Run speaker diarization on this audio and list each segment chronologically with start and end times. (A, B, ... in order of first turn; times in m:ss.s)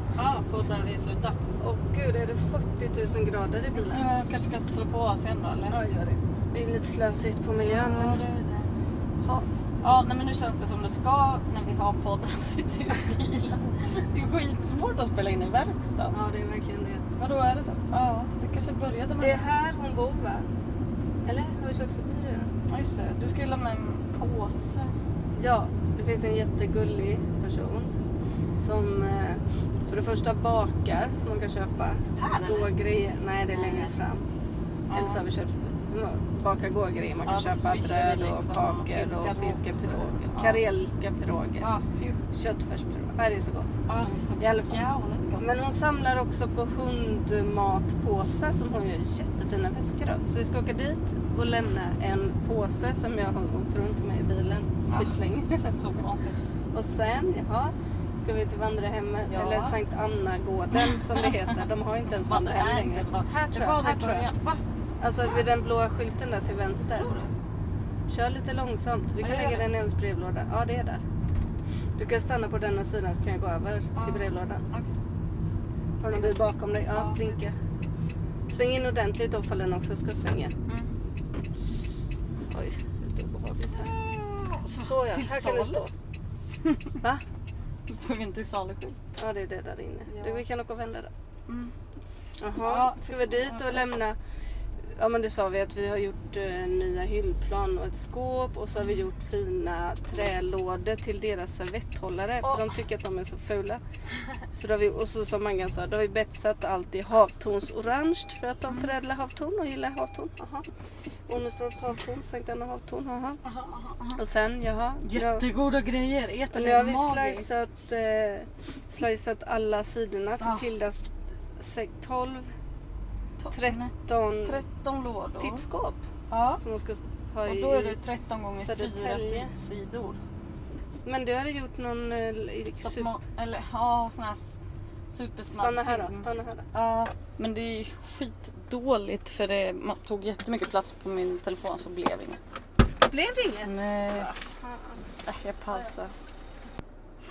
0:00.2-0:01.4 A
0:01.6-0:04.0 B
0:03.7-0:05.8 A
0:05.7-0:08.2 B
0:07.6-0:08.7 A
0:09.8-0:16.2 A
0:16.1-0:17.0 B
0:17.2-0:19.5 A
0:19.2-0:20.5 B
0:21.2-0:22.5 B
0:22.7-0:24.9 A
0:25.3-0:27.9 B
0:28.6-0:34.2 B
0:32.2-0:32.7 A
0:33.5-0:33.9 A
0:34.9-0:35.2 A
0:34.9-0:41.7 B
0:37.2-0:40.6 A
0:41.6-0:42.2 A
0:42.3-0:43.8 B
0:43.9-0:45.4 A
0:44.4-0:44.8 B
0:45.4-0:55.7 B
0:54.8-0:56.4 A
0:56.7-1:04.3 B
0:59.3-0:59.8 A
1:00.8-1:01.3 A
1:02.2-1:04.6 A
1:05.0-1:07.1 B
1:06.8-1:07.3 A
1:08.1-1:11.0 B
1:09.2-1:09.7 A
1:12.0-1:14.6 B
1:13.9-1:14.9 A
1:16.0-1:17.5 B
1:16.9-1:17.2 A
1:18.5-1:20.5 B
1:22.5-1:24.0 B
1:23.7-1:25.8 A
1:24.7-1:25.9 B
1:26.6-1:26.9 A
1:27.9-1:29.0 A
1:29.2-1:31.1 B
1:30.1-1:30.4 A
1:31.5-1:31.7 A
1:32.4-1:34.2 B
1:32.6-1:33.9 A
1:35.0-1:43.8 B
1:42.4-1:42.7 A
1:44.5-1:50.6 B
1:51.3-1:53.4 B
1:53.4-1:54.2 A
1:54.1-1:55.4 B
1:55.0-1:57.6 A
1:56.5-2:02.5 B
2:00.4-2:00.7 A
2:03.4-2:03.9 A
2:03.5-2:04.6 B
2:04.4-2:05.6 A
2:05.4-2:06.0 B
2:06.3-2:06.6 A
2:06.6-2:08.0 B
2:07.4-2:10.2 A
2:08.6-2:09.5 B
2:11.0-2:13.1 B
2:12.8-2:22.5 A
2:15.5-2:16.7 B
2:23.0-2:25.0 B
2:23.6-2:24.3 A
2:25.2-2:26.1 A